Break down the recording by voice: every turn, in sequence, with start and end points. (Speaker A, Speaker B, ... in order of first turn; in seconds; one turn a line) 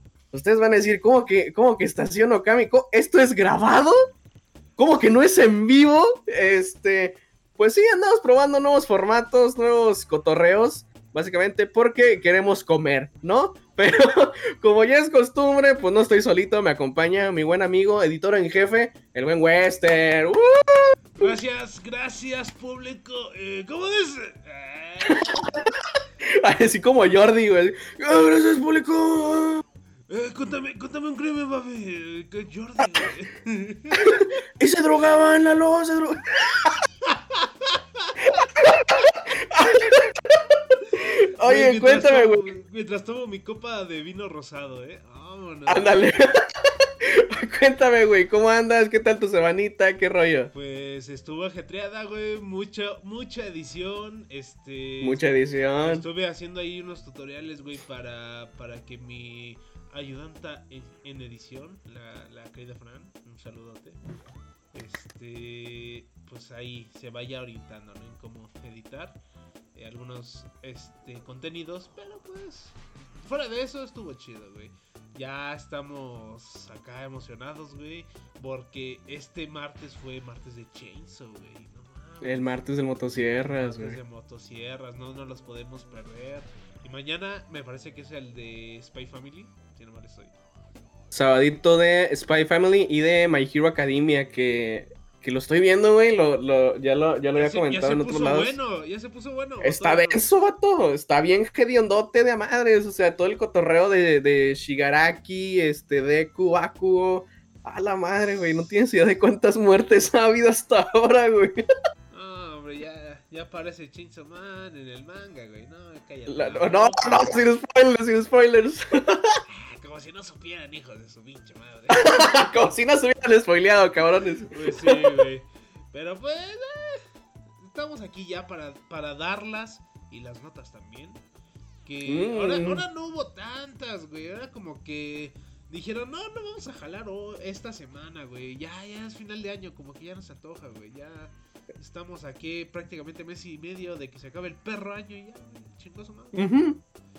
Speaker A: 0.3-4.0
Speaker A: 4.8-21.3
Speaker B: 21.2-25.3
Speaker A: 25.1-25.6
Speaker A: 26.4-29.6
Speaker B: 30.1-34.3
Speaker A: 34.2-36.8
Speaker B: 37.1-38.1
Speaker A: 38.3-40.4
Speaker B: 41.1-46.0
Speaker A: 41.4-42.5
Speaker A: 45.7-46.4
Speaker A: 47.0-50.5
Speaker B: 50.5-55.3
Speaker A: 55.0-56.0
Speaker B: 55.8-64.0
Speaker B: 64.7-69.2
Speaker B: 69.8-82.6
Speaker A: 82.2-84.0
Speaker B: 83.4-90.3
Speaker A: 91.1-98.6
Speaker B: 97.4-100.2
Speaker A: 99.6-111.6
Speaker B: 112.1-117.4
Speaker A: 116.3-119.4
Speaker B: 119.5-122.1
Speaker A: 121.9-125.2
Speaker B: 124.5-127.0
Speaker B: 127.6-131.2
Speaker B: 131.8-146.5
Speaker A: 132.1-132.8
Speaker A: 146.3-146.8